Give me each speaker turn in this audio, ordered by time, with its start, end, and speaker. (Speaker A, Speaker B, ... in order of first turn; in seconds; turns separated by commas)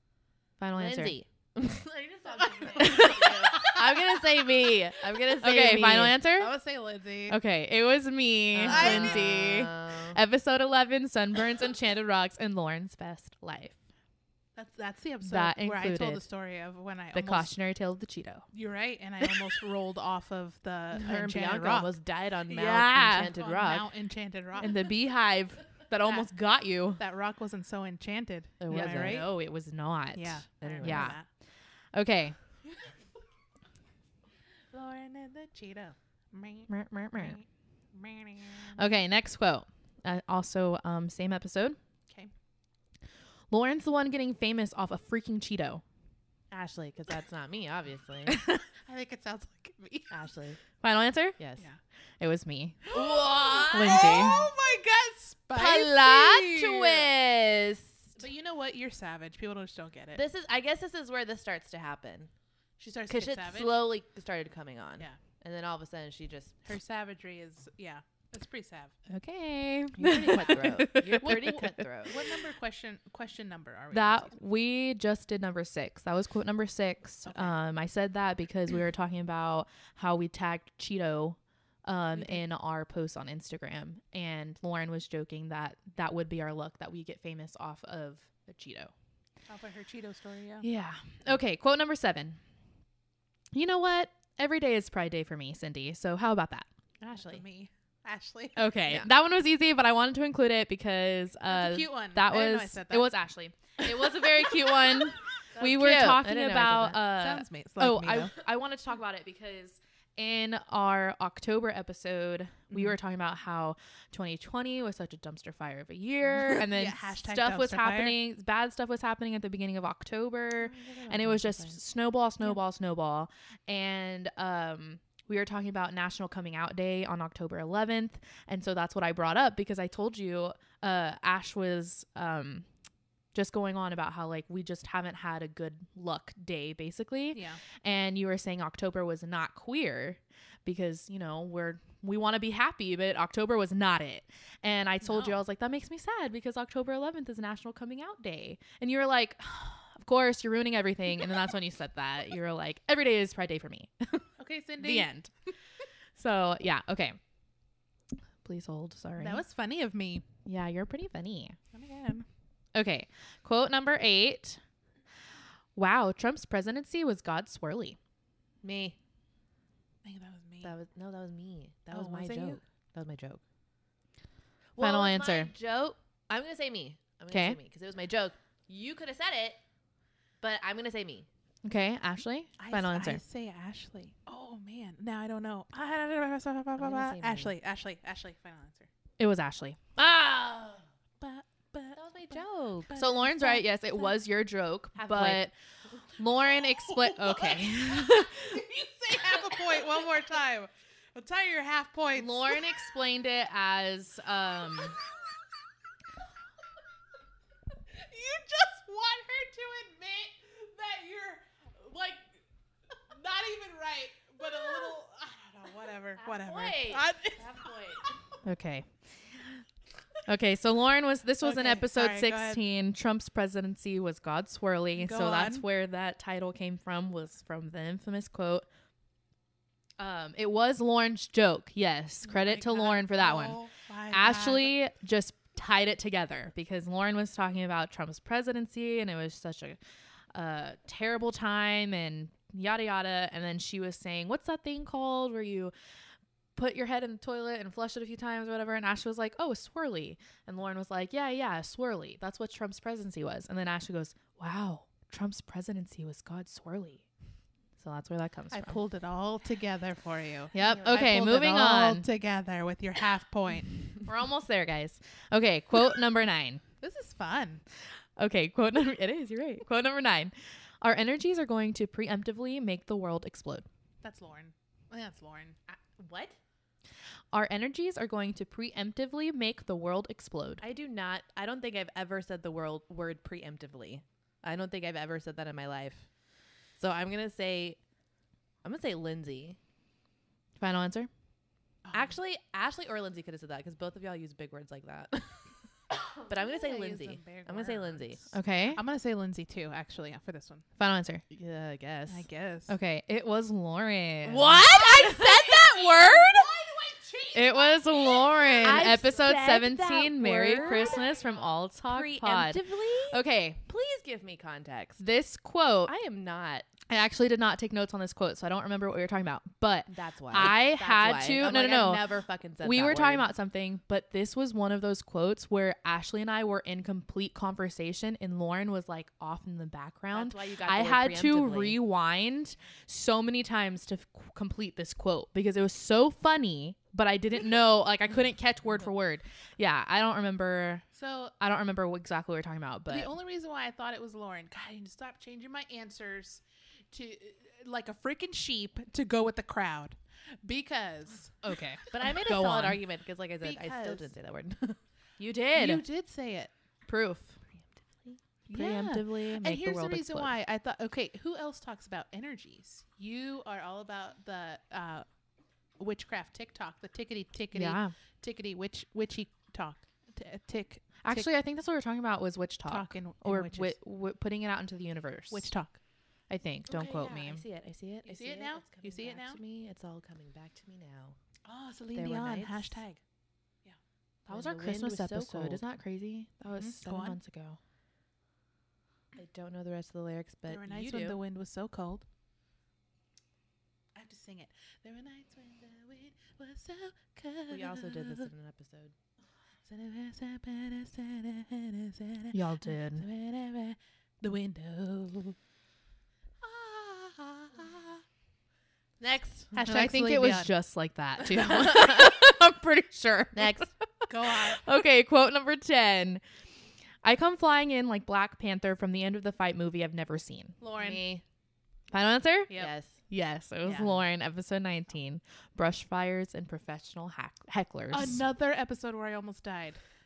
Speaker A: 0.6-1.2, Speaker B: 0.8-6.2, Speaker C: 2.4-3.8, Speaker A: 2.8-3.8, Speaker A: 5.4-6.5, Speaker C: 6.3-7.4, Speaker A: 7.3-13.8, Speaker B: 8.6-10.2, Speaker C: 8.6-9.4, Speaker C: 14.6-17.5, Speaker A: 15.2-16.2, Speaker A: 17.1-18.5, Speaker C: 18.5-21.9, Speaker B: 20.9-23.9, Speaker A: 22.5-23.3, Speaker C: 22.7-24.8, Speaker A: 24.6-27.0, Speaker C: 26.0-26.3, Speaker C: 27.0-29.3, Speaker B: 28.6-29.2, Speaker A: 28.7-31.2, Speaker C: 30.1-31.3, Speaker B: 30.6-31.2, Speaker A: 31.9-32.4, Speaker C: 34.7-38.8, Speaker A: 36.7-37.4, Speaker A: 38.8-41.8, Speaker A: 43.5-45.8, Speaker B: 46.5-48.4, Speaker A: 48.3-48.6, Speaker C: 48.9-50.1, Speaker B: 50.1-50.6, Speaker A: 50.8-51.4, Speaker B: 51.4-51.6, Speaker A: 52.2-52.9, Speaker C: 52.9-57.1, Speaker B: 52.9-54.4, Speaker A: 53.7-54.5, Speaker B: 55.5-58.2, Speaker C: 58.2-60.2, Speaker B: 60.1-62.3, Speaker C: 62.8-63.8, Speaker B: 63.1-66.7, Speaker C: 66.7-69.0, Speaker A: 69.1-71.8, Speaker B: 70.0-72.2, Speaker C: 70.2-74.4, Speaker A: 73.9-88.9, Speaker C: 77.3-77.6, Speaker C: 89.5-90.7, Speaker A: 90.6-92.4, Speaker A: 93.5-96.7, Speaker C: 97.0-98.8, Speaker B: 97.1-97.4, Speaker A: 98.6-132.7, Speaker C: 101.5-103.1, Speaker B: 105.5-107.0, Speaker C: 107.1-108.3, Speaker C: 112.7-113.0, Speaker C: 116.4-118.2, Speaker B: 120.6-121.8, Speaker A: 133.3-154.3, Speaker C: 137.3-137.6, Speaker C: 145.0-145.4, Speaker C: 154.4-155.1, Speaker A: 154.8-155.3, Speaker A: 156.2-157.2, Speaker A: 158.4-159.4, Speaker C: 159.2-160.2, Speaker A: 160.4-161.6, Speaker C: 161.7-162.3, Speaker A: 162.8-164.6, Speaker A: 165.8-168.0, Speaker B: 168.6-169.0, Speaker C: 170.0-170.7, Speaker B: 170.6-173.4, Speaker C: 171.9-172.6, Speaker B: 174.8-179.6, Speaker A: 174.8-175.5, Speaker A: 177.3-177.6, Speaker B: 180.4-181.3, Speaker A: 181.6-183.2, Speaker C: 182.6-188.9, Speaker B: 186.8-187.5, Speaker A: 189.2-190.8, Speaker C: 191.2-193.7, Speaker B: 191.9-193.1, Speaker A: 192.9-195.5, Speaker B: 195.0-195.4, Speaker A: 196.2-198.6, Speaker C: 196.4-202.9, Speaker A: 202.1-205.0, Speaker C: 207.9-212.4, Speaker C: 213.1-218.2, Speaker B: 216.2-218.2, Speaker A: 218.4-218.9, Speaker A: 220.3-228.7, Speaker C: 221.4-222.6, Speaker C: 225.0-225.7, Speaker A: 230.0-233.6, Speaker C: 232.2-234.7, Speaker A: 234.1-239.8, Speaker A: 240.3-245.7, Speaker A: 246.6-257.1, Speaker A: 257.8-258.8, Speaker C: 258.5-263.7, Speaker A: 260.5-262.1, Speaker B: 260.6-260.9, Speaker A: 264.0-266.6, Speaker C: 266.8-267.6, Speaker A: 268.2-273.7, Speaker C: 274.0-275.6, Speaker B: 275.7-276.4, Speaker A: 277.3-280.6, Speaker B: 280.6-286.1, Speaker B: 286.8-287.8, Speaker B: 288.6-289.6, Speaker A: 290.6-291.1, Speaker C: 291.8-292.2, Speaker B: 291.9-295.5, Speaker B: 296.2-298.3, Speaker C: 296.3-300.6, Speaker A: 298.3-298.8, Speaker A: 300.8-301.3, Speaker B: 301.3-302.2, Speaker C: 302.1-302.7, Speaker A: 302.7-305.1, Speaker B: 304.2-306.5, Speaker C: 304.6-309.3, Speaker A: 307.3-313.6, Speaker B: 308.6-311.2, Speaker C: 310.5-311.5, Speaker B: 311.8-315.0, Speaker A: 315.0-315.9, Speaker B: 315.9-316.7, Speaker A: 316.9-322.0, Speaker B: 319.9-323.3, Speaker A: 322.6-340.9, Speaker B: 330.1-331.8, Speaker C: 340.9-341.4, Speaker A: 341.4-343.1, Speaker C: 342.9-351.6, Speaker A: 351.4-352.8, Speaker B: 351.9-354.8, Speaker C: 353.4-354.1, Speaker A: 355.2-355.9, Speaker C: 355.6-356.5, Speaker A: 356.9-357.4, Speaker B: 357.6-358.2, Speaker C: 358.5-365.1, Speaker A: 358.5-360.3, Speaker C: 365.8-371.3, Speaker A: 367.5-367.9, Speaker A: 371.0-375.5, Speaker C: 372.7-373.8, Speaker C: 375.3-375.8, Speaker A: 376.3-377.4, Speaker B: 376.7-381.2, Speaker C: 378.1-379.4, Speaker C: 381.4-383.0, Speaker B: 381.9-382.8, Speaker B: 384.3-385.6, Speaker A: 384.3-387.6, Speaker C: 386.6-387.2, Speaker B: 389.1-391.2, Speaker C: 390.5-392.1, Speaker C: 393.9-398.3, Speaker B: 397.5-398.9, Speaker C: 399.6-405.4, Speaker A: 402.3-403.1, Speaker C: 406.4-408.0, Speaker B: 409.0-409.5, Speaker C: 409.5-410.5, Speaker A: 409.6-416.2, Speaker B: 411.3-412.2, Speaker B: 413.4-413.7, Speaker C: 414.1-414.6, Speaker A: 417.0-420.6, Speaker C: 420.6-421.0, Speaker B: 420.8-421.2, Speaker A: 421.9-428.2, Speaker B: 422.5-423.0, Speaker C: 423.6-424.0, Speaker C: 427.9-429.8